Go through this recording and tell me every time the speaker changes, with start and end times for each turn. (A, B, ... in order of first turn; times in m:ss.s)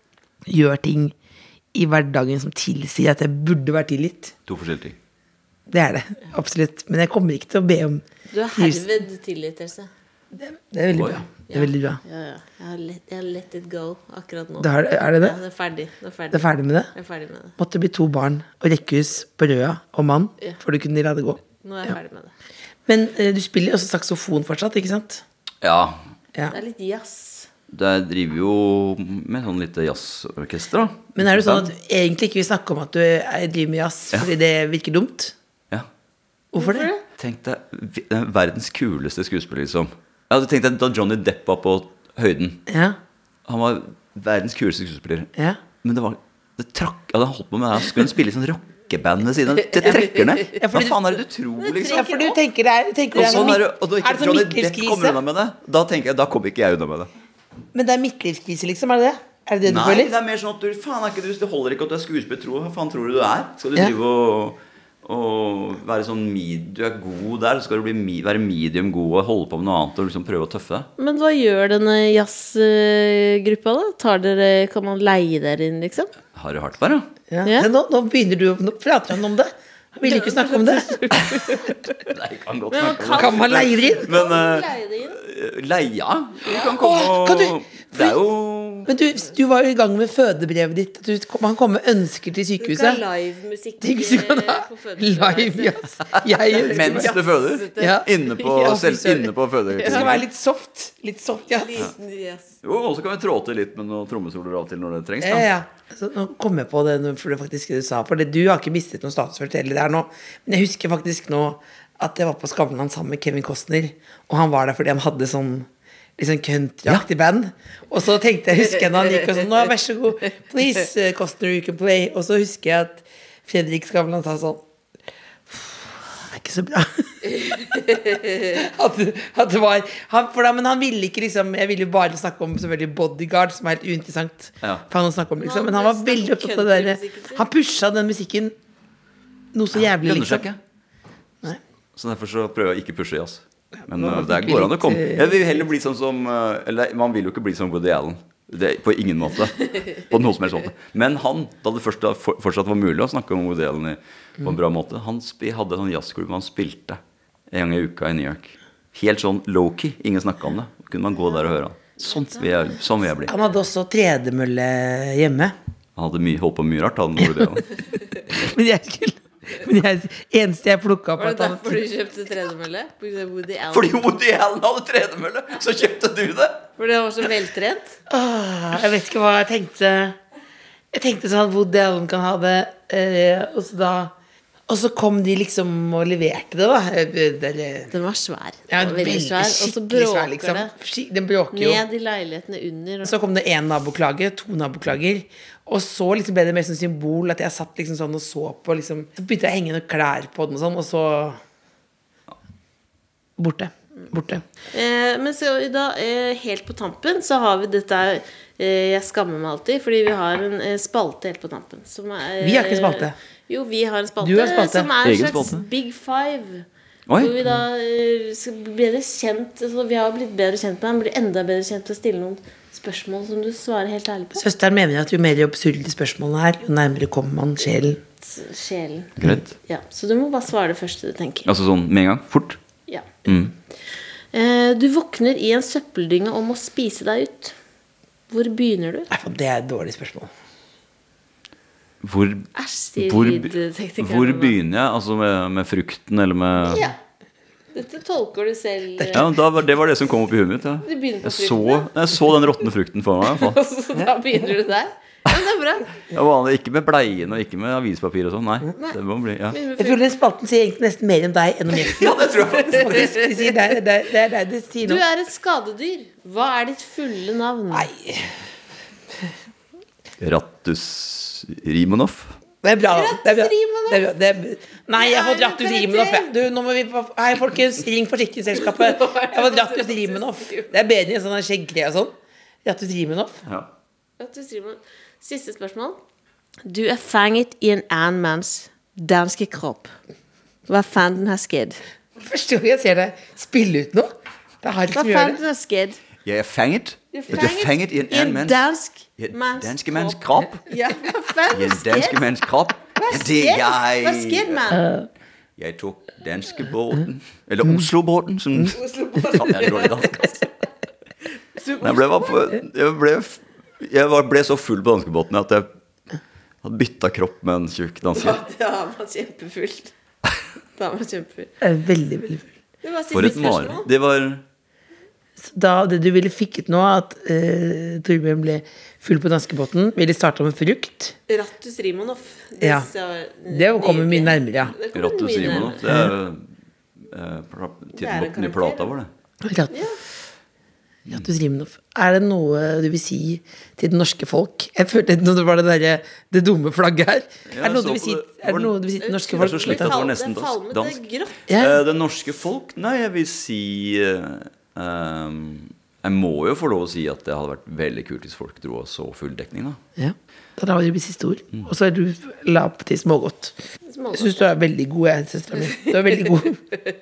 0:00.4-0:01.1 A
0:01.7-0:04.3 A
0:04.4-0:05.0 B
0:05.7-0:08.0 A
0:08.3-0:09.9 C
0:08.6-0:08.8 A
0:10.3-0:12.0 A
0:10.9-0:11.2 B
0:11.5-0:17.6 C
0:14.6-0:15.4 A
0:16.3-0:16.9 A
0:17.6-0:21.9 A
0:21.6-0:22.3 C
0:22.8-0:25.2 A
0:25.6-0:26.0 B
0:26.5-0:27.5 C
0:27.7-0:31.7 B
0:31.1-0:35.3 A
0:36.5-0:36.9 A
0:36.5-0:37.0 C
0:37.2-0:42.6 B
0:42.7-0:43.0 A
0:43.5-0:52.1 B
0:49.8-0:51.2 A
0:51.6-0:52.4 C
0:51.8-0:55.2 A
0:53.1-0:57.1 B
0:57.7-1:00.1 A
0:59.6-1:10.9 B
1:11.0-1:16.1 C
1:16.3-1:17.1 B
1:17.3-1:21.0 A
1:20.0-1:22.0 C
1:22.0-1:28.9 B
1:22.7-1:25.2 C
1:23.1-1:24.2 A
1:26.4-1:26.7 C
1:26.7-1:28.2 A
1:28.8-1:33.0 A
1:32.6-1:39.1 C
1:33.8-1:37.2 A
1:36.1-1:40.2 B
1:37.8-1:41.8 A
1:39.7-1:40.1 C
1:41.5-1:42.5 C
1:42.6-1:45.5 B
1:45.2-2:04.6 A
2:05.5-2:18.5 A
2:07.6-2:08.2 C
2:15.4-2:17.4 C
2:19.5-2:20.4 A
2:19.7-2:20.6 B
2:22.0-2:37.0 B
2:23.9-2:25.4 A
2:37.5-2:43.3 B
2:42.0-2:42.8 C
2:43.3-2:45.5 A
2:46.0-2:47.8 B
2:48.3-2:51.8 A
2:51.2-2:54.0 C
2:53.7-2:56.7 B
2:56.8-2:58.0 C
2:58.1-3:00.2 A
3:00.9-3:04.1 A
3:04.7-3:07.9 A
3:07.9-3:10.7 C
3:08.7-3:11.8 A
3:11.5-3:13.2 C
3:13.0-3:21.4 A
3:23.4-3:24.4 A
3:24.7-3:36.6 C
3:32.4-3:33.1 A
3:34.2-3:34.9 A
3:35.0-3:35.6 B
3:37.1-3:37.3 B
3:37.2-3:44.4 C
3:44.3-3:48.0 A
3:48.2-3:51.5 C
3:49.2-3:49.4 B
3:51.4-3:52.6 B
3:53.2-3:53.5 B
3:54.3-3:57.6 C
3:58.3-3:59.1 C
3:59.1-4:00.3 A
4:02.0-4:02.5 B
4:02.5-4:04.6 C
4:03.0-4:06.9 B
4:06.6-4:06.9 C
4:07.7-4:09.3 C
4:09.0-4:09.2 A
4:09.1-4:13.6 B
4:10.8-4:11.9 C
4:13.2-4:15.9 C
4:16.1-4:19.6 B
4:19.5-4:20.0 C
4:19.8-4:25.0 A
4:21.7-4:23.2 B
4:22.8-4:23.1 C
4:24.8-4:27.9 C
4:27.7-4:28.3 A
4:30.2-4:32.3 B
4:32.6-4:43.4 A
4:32.9-4:34.1 C
4:35.0-4:36.3 C
4:38.5-4:40.8 C
4:44.2-4:46.0 C
4:46.6-4:49.9 C
4:50.7-4:51.8 C
4:52.2-4:55.4 A
4:54.9-4:56.0 C
4:56.2-4:58.6 B
4:57.1-5:02.2 C
4:59.2-5:00.6 B
5:01.5-5:04.6 B
5:02.9-5:04.8 C
5:04.7-5:05.1 A
5:05.6-5:10.5 B
5:08.7-5:10.4 C
5:11.5-5:12.5 C
5:11.8-5:15.7 B
5:16.6-5:18.4 B
5:18.1-5:19.9 C
5:20.7-5:21.5 C
5:21.6-5:22.5 A
5:22.8-5:23.9 C
5:23.1-5:24.4 B
5:25.4-5:31.2 A
5:31.3-5:35.8 C
5:32.6-5:32.9 A
5:33.5-5:34.7 A
5:34.9-5:36.4 B
5:35.8-5:36.1 A
5:37.0-5:39.1 B
5:37.9-5:38.9 C
5:39.4-5:39.7 A
5:39.7-5:40.0 C
5:41.1-5:50.0 A
5:47.5-5:48.8 B
5:49.0-5:51.5 C
5:49.4-5:59.8 B
5:51.5-5:51.8 A
6:00.0-6:03.6 A
6:03.8-6:04.5 C
6:04.1-6:06.6 A